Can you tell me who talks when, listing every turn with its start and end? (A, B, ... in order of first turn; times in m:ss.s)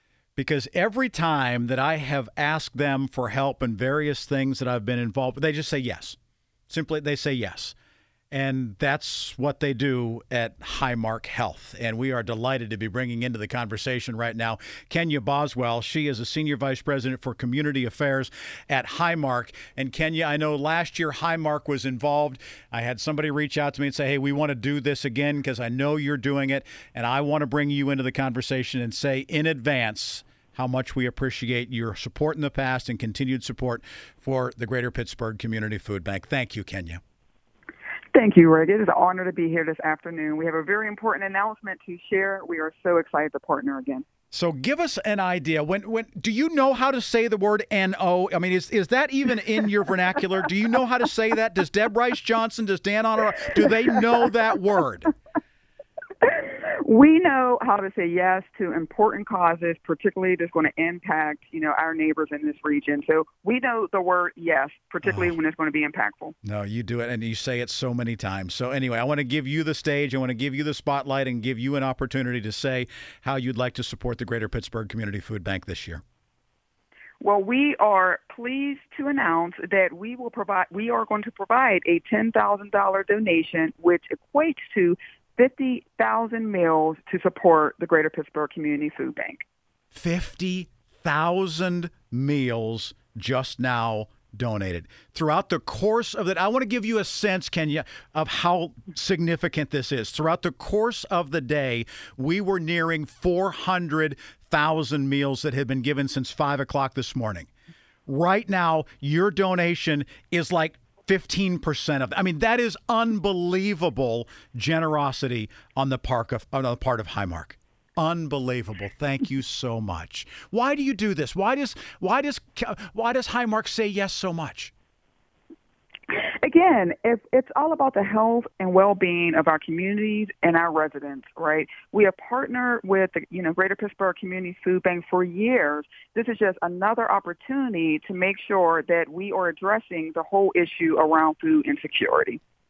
0:00.4-0:06.2 A
0:06.7-0:07.8 A
0:08.3-0:37.0 A
0:38.1-0:44.0 B
0:44.3-0:55.1 A
0:56.2-1:06.4 B
1:05.0-1:05.3 A
1:06.4-1:16.0 A
1:17.2-1:29.4 B
1:29.9-1:47.5 A
1:48.1-2:04.7 A
2:06.1-2:22.4 B